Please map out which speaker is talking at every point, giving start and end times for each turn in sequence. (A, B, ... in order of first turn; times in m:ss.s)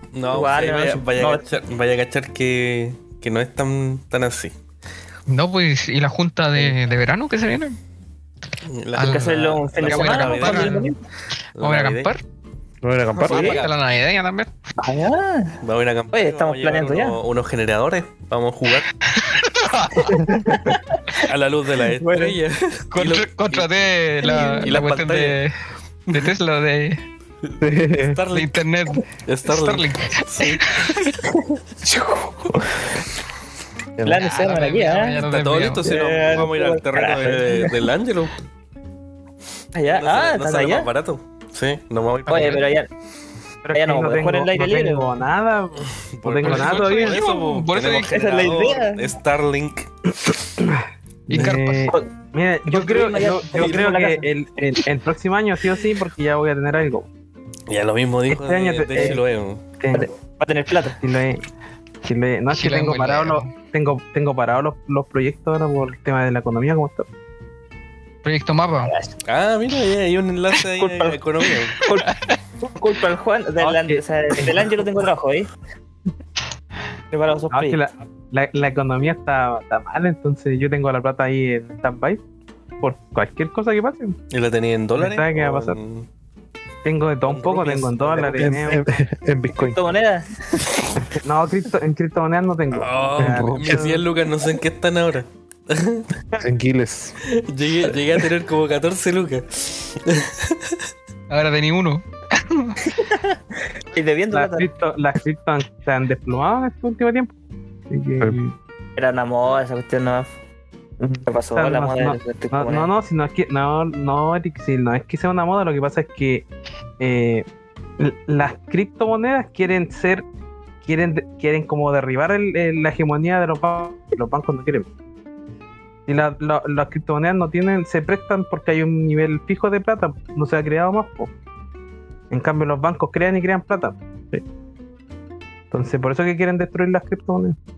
0:00.1-0:04.5 A
0:00.3-0:01.5 B
0:05.3-0:07.8 C
0:08.6-0:10.9 A
0:09.0-0:10.9 C
0:09.0-0:11.0 B
0:11.6-0:12.1 A
0:11.6-0:12.2 C
0:12.8-0:13.5 D
0:13.2-0:13.8 A
0:13.3-0:13.6 B
0:13.3-0:14.5 C
0:14.8-0:15.6 B
0:15.6-0:18.9 A
0:16.1-0:17.2 B
0:19.1-0:20.3 C
0:20.0-0:21.3 B
0:21.2-0:23.7 A
0:22.0-0:22.4 B
0:22.9-0:25.6 C
0:24.2-0:25.4 A
0:24.2-0:24.7 B
0:26.1-0:27.0 C
0:27.4-0:30.8 A
0:27.6-0:28.2 D
0:28.3-0:31.2 C
0:31.2-0:32.8 B
0:34.0-0:34.2 D
0:34.0-0:35.2 B
0:34.1-0:35.9 C
0:35.2-0:38.4 A
0:35.8-0:37.8 B
0:39.7-0:40.9 B
0:39.9-0:42.6 A
0:42.3-0:42.9 B
0:42.3-0:42.6 C
0:43.6-0:47.2 E
0:43.7-0:45.2 B
0:46.2-0:49.9 A
0:46.4-0:48.1 C
0:48.1-0:49.0 B
0:50.3-0:57.1 E
0:51.3-0:52.0 C
0:52.7-0:54.3 B
0:57.7-0:59.6 A
0:58.3-0:59.2 E
0:59.8-1:00.1 E
0:59.9-1:01.0 B
1:01.0-1:01.4 E
1:02.0-1:07.1 E
1:02.5-1:03.6 C
1:08.2-1:08.9 C
1:08.8-1:09.1 B
1:09.3-1:11.8 A
1:10.8-1:11.2 B
1:11.8-1:12.1 B
1:11.8-1:12.4 C
1:12.7-1:15.5 B
1:13.6-1:14.7 E
1:17.1-1:17.8 B
1:17.5-1:22.2 E
1:22.8-1:24.2 E
1:24.3-1:26.1 A
1:25.0-1:25.8 E
1:26.8-1:28.8 E
1:27.2-1:28.6 A
1:28.2-1:29.8 D
1:29.6-1:30.7 B
1:31.1-1:34.0 E
1:32.7-1:36.1 A
1:33.2-1:33.8 D
1:36.4-1:37.2 D
1:37.3-1:40.8 A
1:41.3-1:42.8 C
1:42.8-1:43.4 B
1:43.9-1:44.7 B
1:44.3-1:47.4 E
1:47.9-1:48.5 E
1:49.0-1:50.3 B
1:51.0-1:56.5 E
1:51.2-1:52.9 B
1:57.0-1:57.5 E
1:58.0-2:00.2 E
2:00.8-2:04.9 E
2:06.1-2:11.3 E
2:12.3-2:14.4 E
2:15.7-2:17.6 E